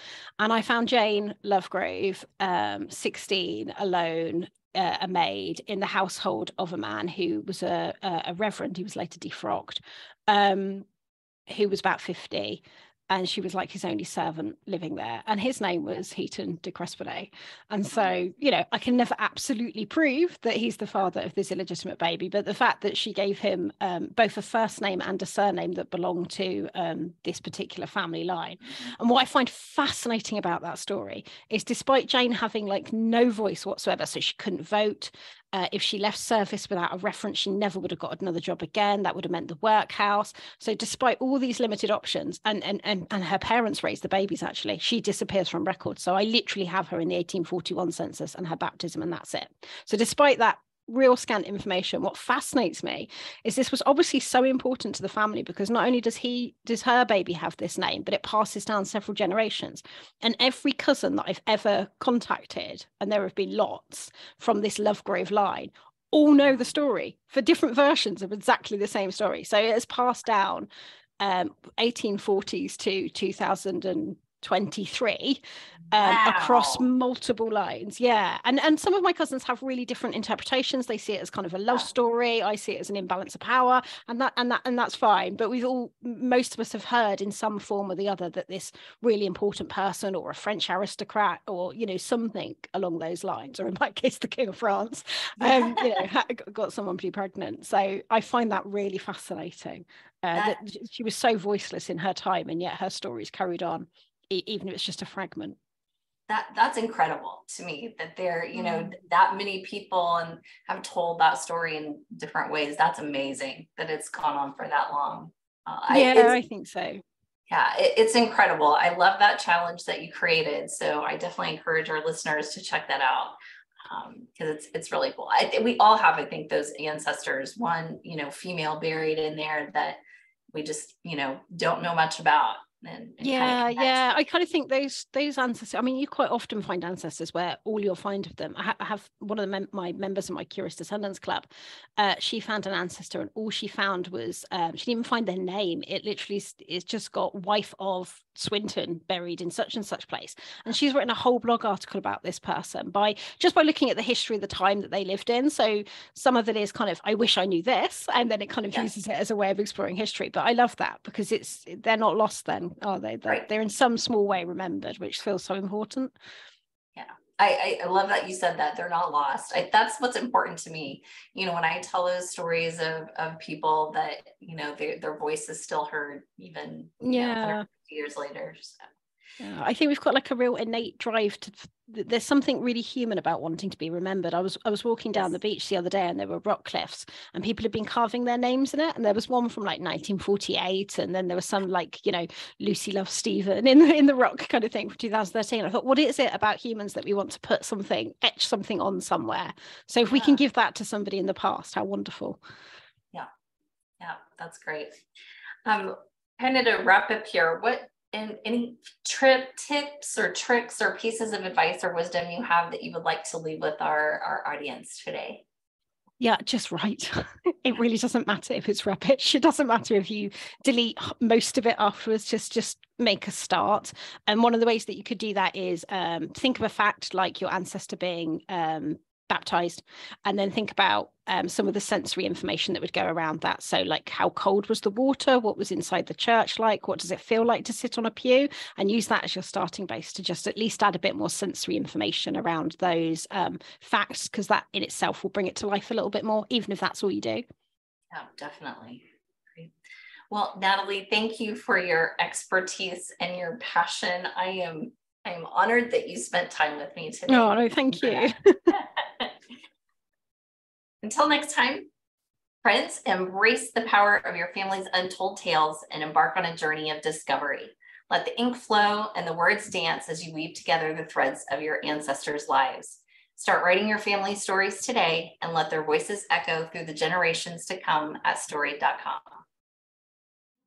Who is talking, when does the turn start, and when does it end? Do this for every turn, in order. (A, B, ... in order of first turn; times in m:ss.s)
0:00.4-0:10.8 A
0:11.5-1:10.7 A
1:11.2-1:45.6 A
1:16.0-1:16.8 B
1:35.4-1:36.0 B
1:40.3-1:40.6 B
1:46.3-1:56.4 B
1:48.5-1:48.9 A
1:55.9-1:57.0 A
1:57.5-2:03.4 B
2:03.9-2:10.0 B
2:10.5-2:14.1 B
2:13.2-2:46.1 A
2:46.9-2:58.8 B
2:57.0-2:57.6 A
2:59.4-3:22.4 A
3:20.1-3:20.4 B
3:24.0-3:25.0 B
3:25.6-3:35.4 B
3:36.2-4:07.4 A
4:08.1-4:09.0 B
4:10.3-4:19.3 B
4:17.3-4:18.8 A
4:21.0-4:21.9 B
4:22.6-4:39.4 B